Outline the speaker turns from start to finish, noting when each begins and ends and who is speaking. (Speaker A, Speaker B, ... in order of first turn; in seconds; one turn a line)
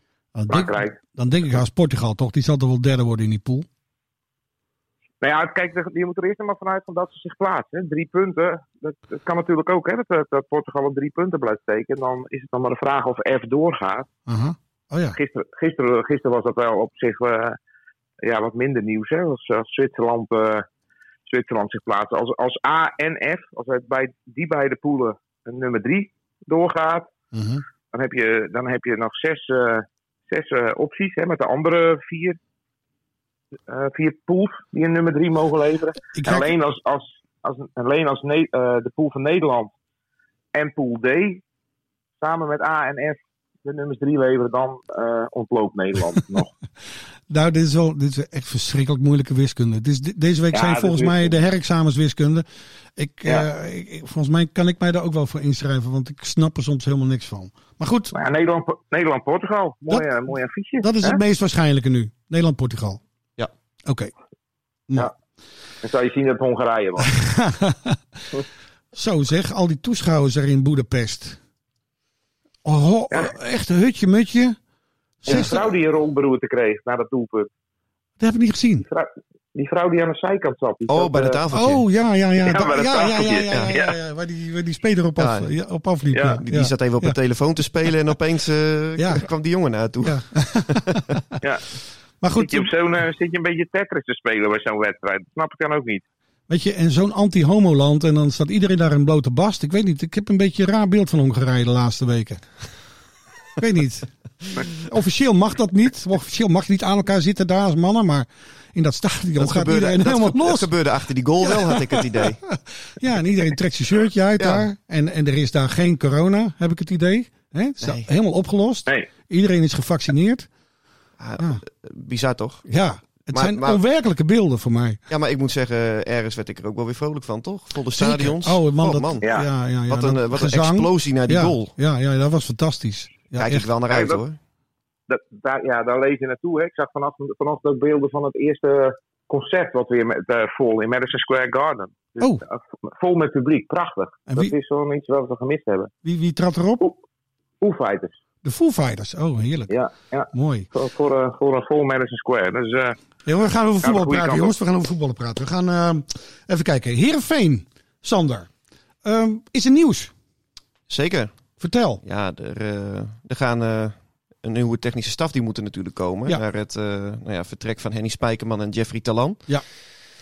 Speaker A: 0.3-3.6
Speaker B: 0.5-0.9
Speaker B: 5.2-14.1
Speaker A: 14.3-15.2
Speaker B: 15.1-17.6
Speaker B: 18.2-20.6
Speaker B: 21.3-27.1
Speaker A: 27.3-27.6
Speaker B: 27.9-32.4
Speaker B: 33.7-39.7
Speaker A: 36.1-36.5
Speaker B: 40.5-41.4
Speaker B: 42.2-46.5
Speaker A: 47.3-52.4
Speaker B: 50.5-51.4
Speaker A: 53.0-58.1
Speaker B: 58.1-61.2
Speaker A: 60.8-63.0
Speaker A: 63.9-64.1
Speaker B: 65.8-67.1
Speaker A: 67.0-68.0
Speaker A: 68.9-71.4
Speaker A: 72.6-74.6
Speaker A: 75.2-75.5
Speaker B: 75.3-77.5
Speaker A: 78.2-78.8
Speaker B: 78.8-81.4
Speaker C: 80.9-81.8
Speaker A: 81.5-87.2
Speaker B: 82.4-83.9
Speaker C: 85.2-85.5
Speaker B: 86.1-86.4
Speaker C: 86.4-91.1
Speaker A: 89.0-89.3
Speaker A: 90.0-91.4
Speaker A: 92.2-92.7
Speaker B: 92.3-96.0
Speaker A: 96.5-102.4
Speaker A: 103.6-104.1
Speaker A: 104.7-110.7
Speaker C: 109.4-112.4
Speaker A: 111.5-120.5
Speaker C: 114.4-114.6
Speaker C: 117.8-118.1
Speaker C: 121.2-122.7
Speaker A: 122.7-125.0
Speaker C: 123.3-123.8
Speaker C: 125.1-129.3
Speaker A: 128.0-133.7
Speaker C: 129.9-131.7
Speaker C: 133.3-134.4
Speaker B: 133.9-134.2
Speaker B: 135.1-145.9
Speaker A: 144.3-144.5
Speaker A: 146.0-146.8
Speaker B: 147.6-148.1
Speaker A: 148.4-149.7
Speaker B: 149.7-152.9
Speaker A: 150.3-150.7
Speaker A: 153.2-158.5
Speaker B: 153.8-154.5
Speaker A: 159.0-160.1
Speaker C: 160.9-161.3
Speaker A: 161.6-162.0
Speaker C: 162.0-169.4